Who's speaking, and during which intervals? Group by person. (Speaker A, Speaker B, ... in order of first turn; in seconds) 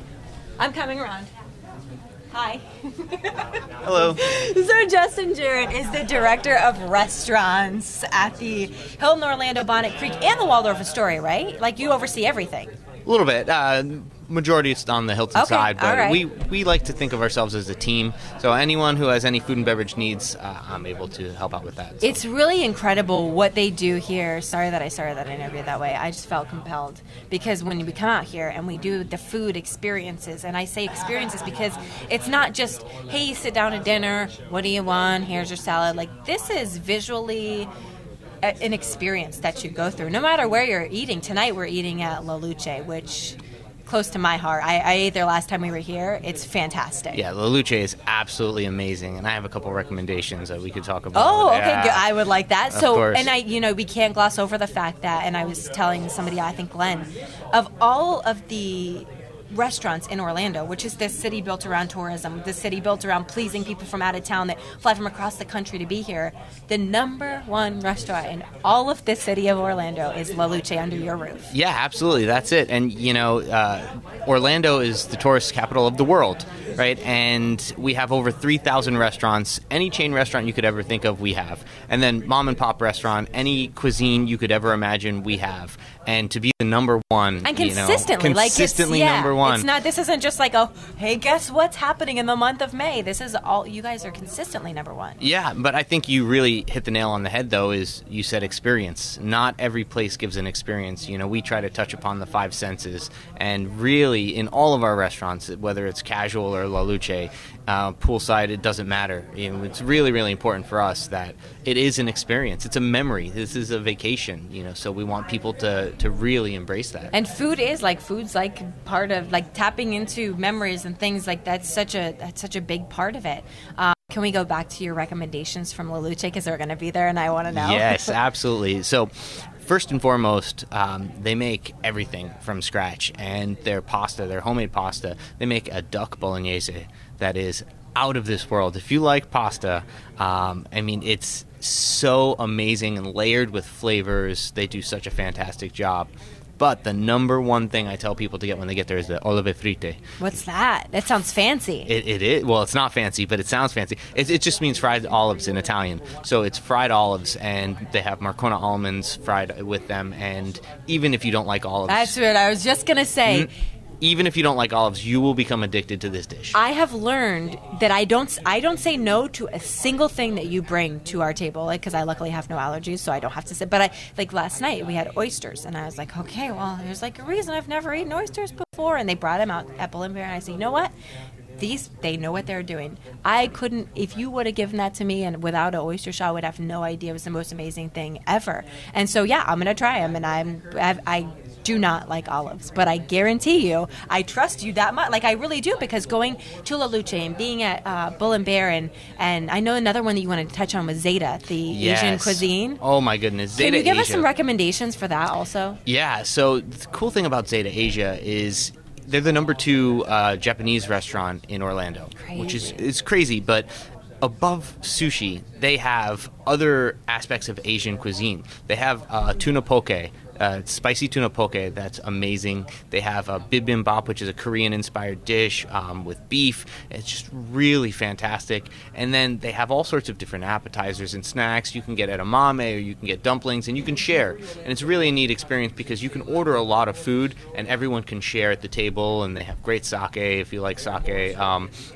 Speaker A: 0.6-1.3, 2.3-12.7, 15.3-16.2, 22.0-37.7, 38.4-47.2, 51.1-71.5, 87.4-95.2, 117.1-128.2, 150.2-151.9, 161.9-163.5, 166.5-180.9, 181.6-202.8, 203.6-205.8, 212.2-212.8
Speaker B: 3.8-4.2, 13.1-22.2, 47.1-52.1, 52.7-53.3, 71.5-89.7, 95.2-117.1, 127.5-150.0, 151.8-162.1, 164.0-166.6, 201.7-204.2, 205.8-213.7, 214.2-241.7